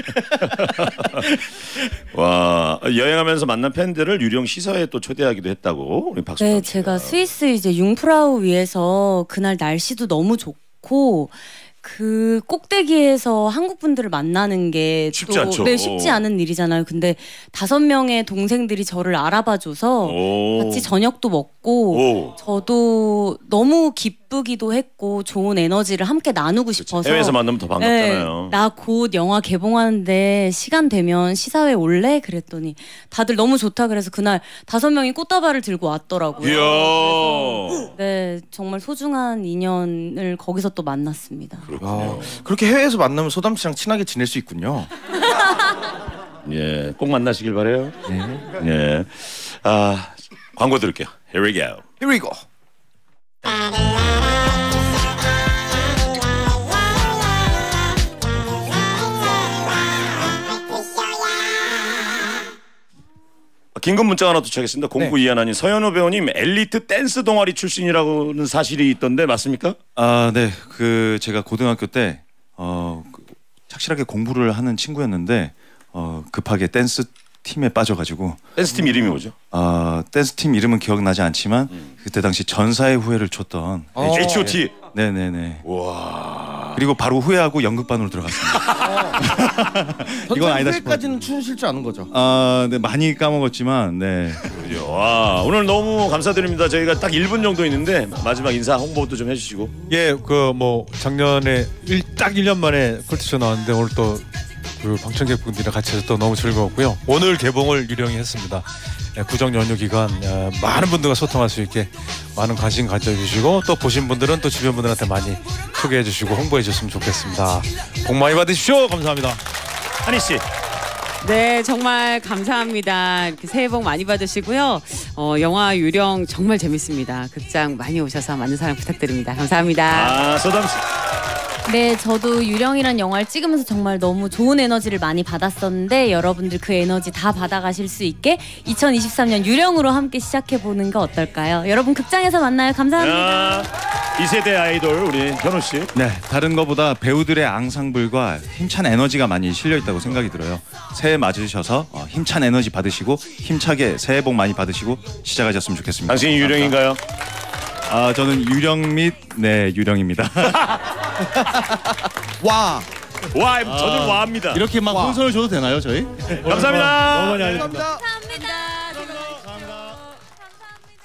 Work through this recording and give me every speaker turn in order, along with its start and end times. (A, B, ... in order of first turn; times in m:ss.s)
0:00.3-0:07.2 A
0:06.4-0:41.7 B
0:15.1-0:16.2 A
0:20.0-0:20.9 A
0:21.9-0:22.4 A
0:26.8-0:28.6 A
0:36.4-0:37.9 A
0:41.7-0:42.4 A
0:41.8-0:44.9 C
0:46.4-0:48.0 A
0:48.1-0:48.6 C
0:48.5-0:51.8 A
0:52.0-0:52.4 C
1:03.7-1:09.8 A
1:10.0-1:18.4 D
1:18.6-1:19.3 A
1:19.5-1:25.6 D
1:23.9-1:24.5 C
1:24.1-1:24.7 A
1:25.6-1:26.8 A
1:26.7-1:31.3 D
1:28.5-1:29.1 A
1:28.8-1:29.2 C
1:30.3-1:32.1 C
1:32.1-1:34.5 D
1:34.5-1:39.7 A
1:39.9-1:44.2 E
1:44.8-1:59.4 E
2:00.0-2:00.4 A
2:01.2-2:10.2 F
2:09.9-2:10.8 A
2:11.6-2:23.7 B
2:23.0-2:25.9 A
2:25.9-2:36.8 D
2:29.9-2:30.2 A
2:36.1-2:37.0 A
2:37.9-2:40.8 D
2:41.4-2:41.8 C
2:42.4-2:42.8 C
2:43.3-2:44.7 A
2:43.6-2:47.5 D
2:44.8-2:45.2 C
2:46.4-2:47.4 A
2:46.5-2:47.8 E
2:47.2-2:48.1 C
2:48.0-2:49.4 B
2:49.1-2:50.0 D